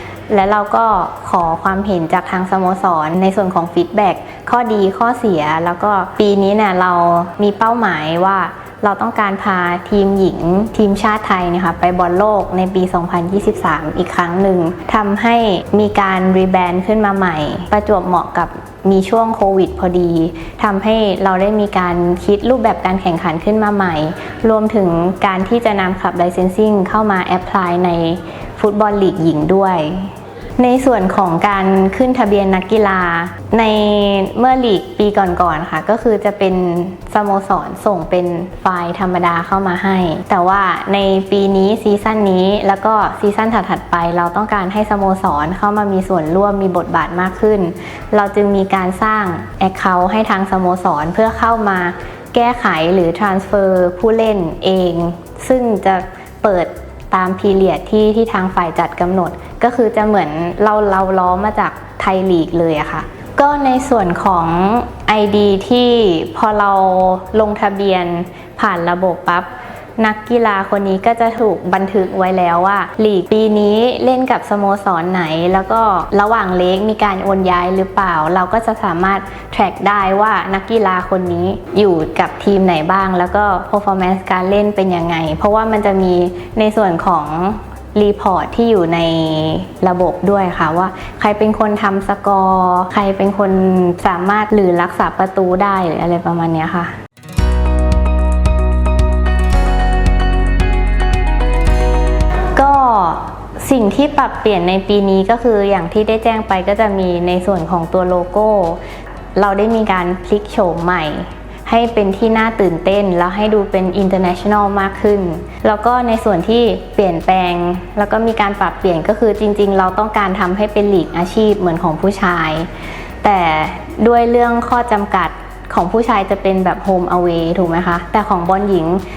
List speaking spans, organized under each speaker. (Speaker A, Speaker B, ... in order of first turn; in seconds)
Speaker A: 0.3-96.9, 102.5-108.8, 109.3-122.7, 123.2-129.0